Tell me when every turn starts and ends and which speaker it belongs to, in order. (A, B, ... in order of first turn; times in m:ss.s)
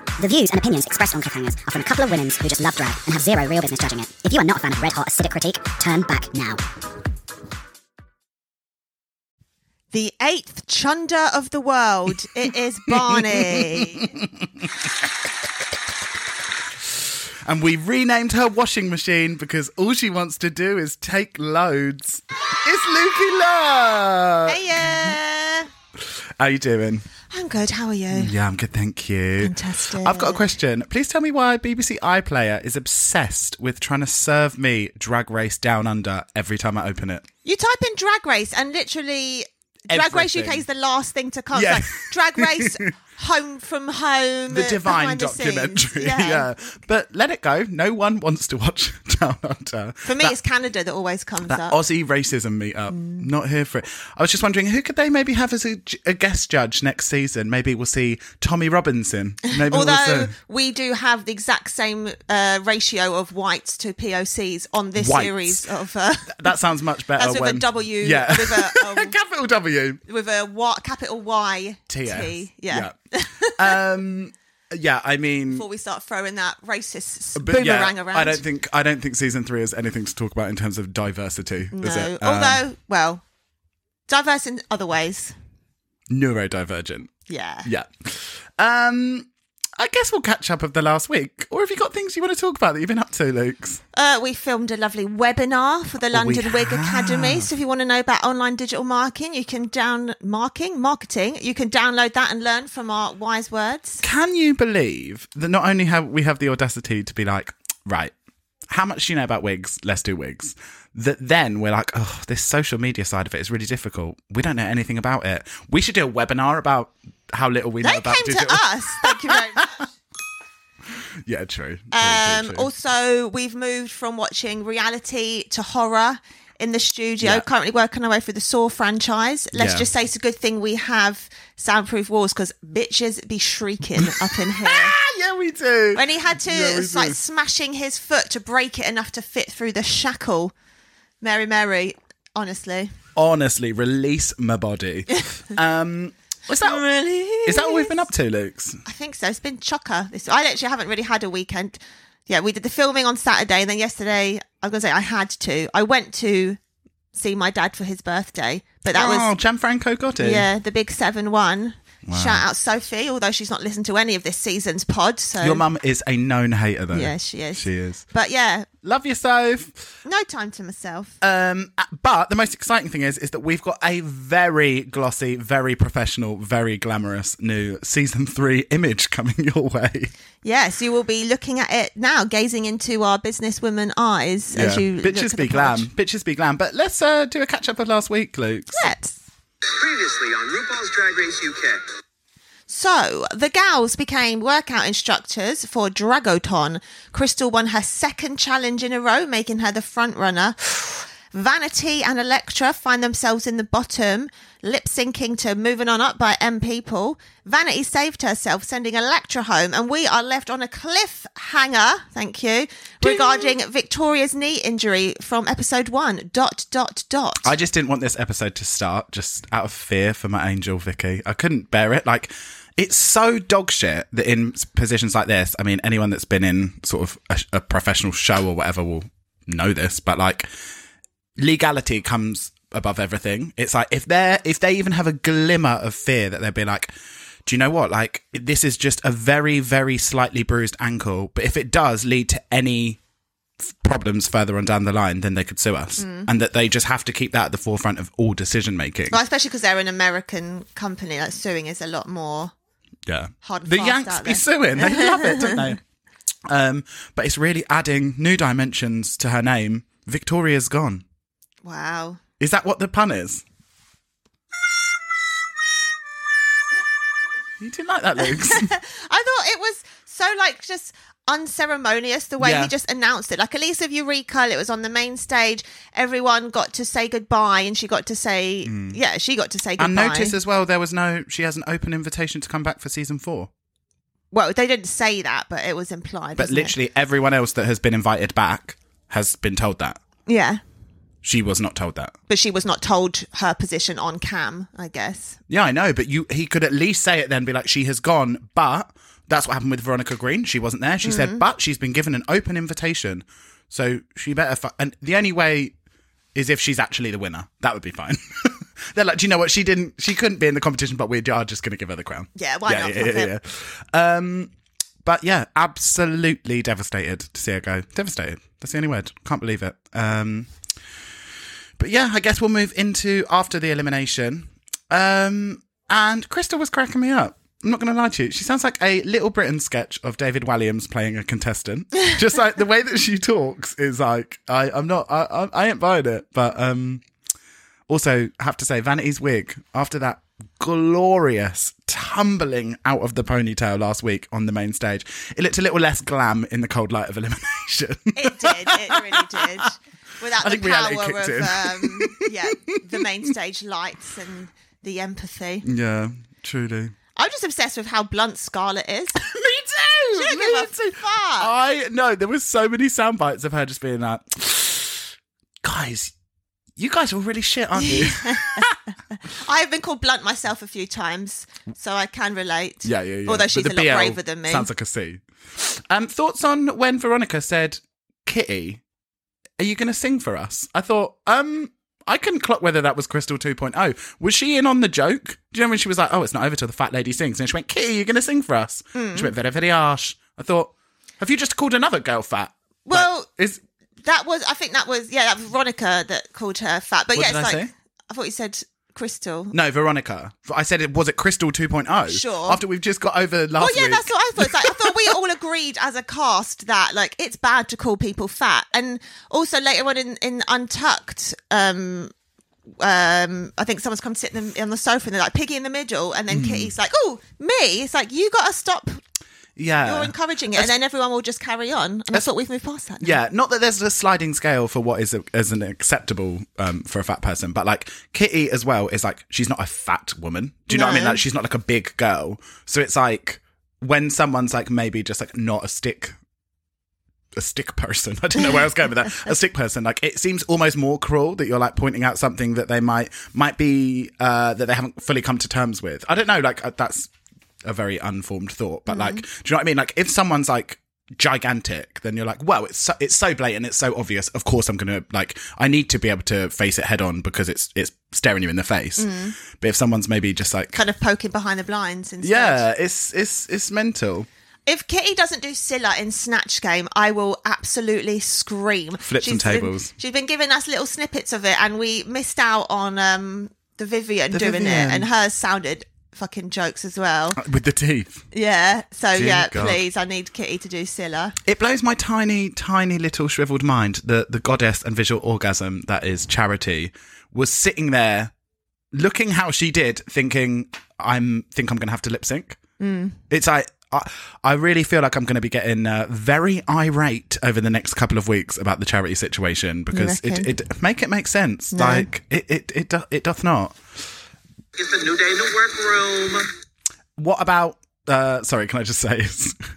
0:00.2-0:06.6 A
0:09.9-0:14.1 B
0:12.9-0:14.9 C
0:16.9-0:25.1 C
0:24.4-0:25.7 B
0:26.4-0:27.0 C
0:27.3-0:28.3 B
0:28.1-0:37.2 C
0:29.4-0:30.5 B
0:37.4-0:46.5 B
0:39.9-0:40.6 C
0:41.5-0:42.9 C
0:44.5-0:50.4 C
0:50.0-0:51.8 B
0:51.4-1:00.3 C
0:52.9-0:53.2 B
0:59.5-1:06.6 B
1:05.0-1:05.6 C
1:06.3-1:10.0 C
1:07.2-1:09.1 B
1:10.1-1:13.8 B
1:11.9-1:15.6 C
1:15.5-1:18.4 B
1:17.4-1:22.6 C
1:21.7-1:23.2 B
1:24.1-1:25.3 B
1:26.1-1:27.1 C
1:27.3-1:27.7 B
1:27.6-1:33.8 C
1:33.9-1:44.0 B
1:36.1-1:37.5 C
1:44.0-1:48.1 C
1:48.7-1:59.8 C
1:57.8-1:59.8 B
2:01.2-2:02.7 C
2:01.9-2:14.9 B
2:09.5-2:09.9 C
2:14.0-2:17.2 C
2:15.9-2:20.5 B
2:21.2-2:22.9 B
2:23.2-2:26.8 C
2:26.6-2:28.0 B
2:27.4-2:28.8 C
2:28.8-2:36.6 B
2:37.1-2:39.3 B
2:38.9-2:40.5 C
2:40.2-2:45.6 B
2:42.0-2:42.4 C
2:45.4-2:48.0 C
2:46.9-2:48.7 B
2:48.8-2:49.8 C
2:50.0-2:51.2 B
2:51.2-3:00.1 C
3:00.4-3:05.9 B
3:04.5-3:08.9 C
3:08.7-3:09.2 B
3:09.7-3:11.8 D
3:12.7-3:37.5 B
3:33.0-3:33.5 C
3:37.4-3:50.5 C
3:51.4-3:56.9 C
3:57.4-4:03.0 C
4:03.6-4:09.2 C
4:06.0-4:06.3 B
4:09.1-4:12.5 B
4:13.1-4:15.8 C
4:13.4-4:15.7 B
4:16.5-4:21.0 C
4:21.6-4:22.2 B
4:22.4-4:23.4 C
4:27.6-4:28.7 C
4:28.2-4:40.3 B
4:32.4-4:32.7 C
4:38.6-4:39.0 C
4:39.8-4:43.5 C
4:44.3-4:46.7 B
4:46.4-4:50.0 C
4:50.3-4:50.6 B
4:51.2-4:52.1 C
4:52.3-4:55.4 B
4:55.5-5:05.7 C
5:01.0-5:01.4 B
5:06.3-5:14.5 C
5:12.4-5:13.3 B
5:15.0-5:20.5 C
5:21.8-5:37.0 C
5:37.9-5:49.7 C
5:48.1-5:55.6 B
5:50.4-5:53.0 C
5:55.6-5:56.9 C
5:57.2-5:59.2 B
5:59.2-6:06.1 C
6:00.1-6:01.5 B
6:06.8-6:08.8 C
6:07.8-6:14.7 B
6:12.8-6:18.8 C
6:19.6-6:33.6 C
6:28.9-6:29.3 B
6:32.8-6:33.3 B
6:34.0-6:39.5 B
6:37.1-6:37.7 C
6:39.5-6:45.1 C
6:42.1-6:42.6 B
6:43.6-6:52.1 B
6:52.8-6:59.0 B
6:56.3-6:56.7 C
6:59.6-7:00.7 C
6:59.8-7:03.2 B
7:03.0-7:16.2 C
7:10.7-7:11.2 B
7:17.3-7:27.1 C
7:27.6-7:40.8 C
7:28.9-7:29.2 B
7:39.0-7:39.3 B
7:40.7-7:42.6 B
7:42.2-7:44.3 C
7:44.6-7:57.4 B
7:49.0-7:49.9 C
7:54.3-7:55.1 C
7:57.3-7:58.2 C
7:58.3-8:01.4 B
7:59.1-7:59.8 C
8:01.4-8:08.3 C
8:08.9-8:12.6 C
8:12.8-8:13.2 B
8:13.3-8:23.8 C
8:19.9-8:20.5 B
8:21.7-8:22.1 B
8:24.7-8:26.5 D
8:27.2-8:29.6 C